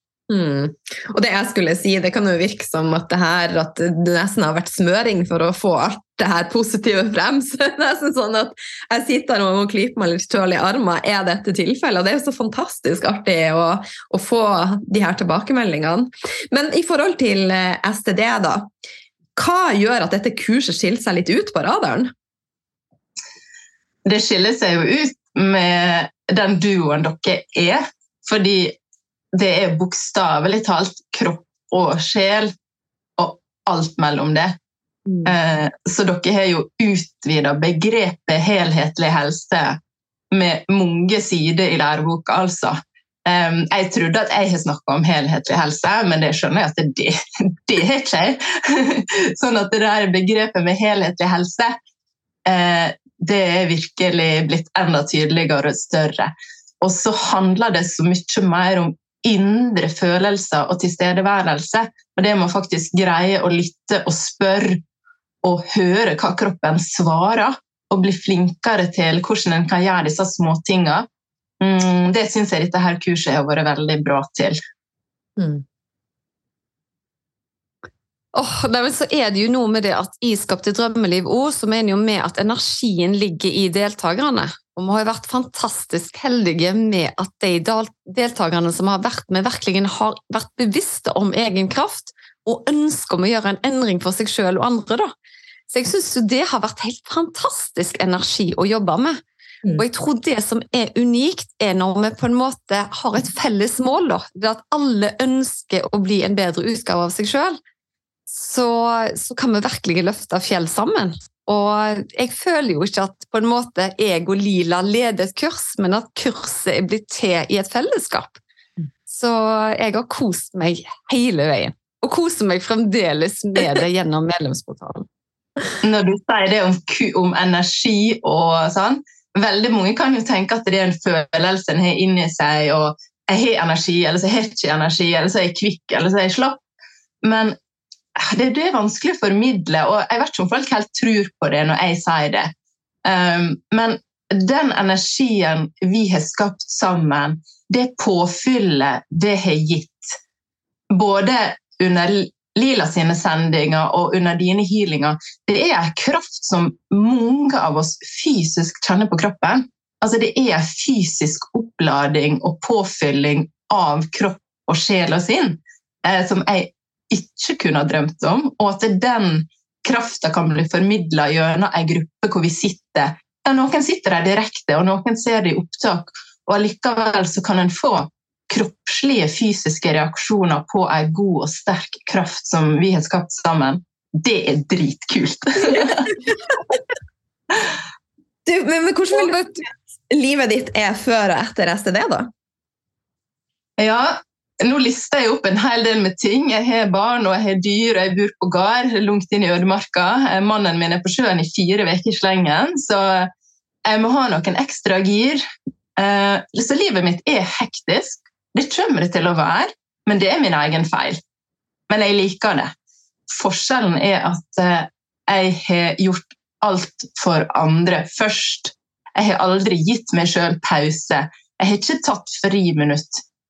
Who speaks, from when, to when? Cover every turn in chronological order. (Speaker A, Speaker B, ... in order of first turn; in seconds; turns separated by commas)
Speaker A: 0.3-18.7, Speaker A: 19.4-22.1, Speaker B: 24.1-28.8, Speaker B: 29.3-32.5, Speaker B: 33.2-34.5, Speaker A: 35.1-35.3, Speaker B: 35.2-39.8, Speaker B: 40.3-51.7, Speaker B: 52.5-64.8, Speaker B: 65.4-71.0, Speaker B: 71.6-74.6, Speaker A: 75.4-75.6, Speaker C: 78.3-95.1, Speaker C: 95.7-99.2, Speaker C: 99.8-107.6, Speaker C: 108.3-118.4, Speaker C: 119.1-125.1, Speaker B: 125.8-136.6, Speaker B: 137.2-137.6, Speaker B: 138.2-142.5, Speaker B: 143.1-150.2, Speaker B: 150.9-186.3, Speaker A: 188.4-192.3, Speaker C: 189.1-189.5, Speaker B: 193.8-203.3, Speaker B: 203.8-205.4, Speaker B: 206.0-211.2, Speaker B: 211.9-212.7, Speaker B: 213.3-223.2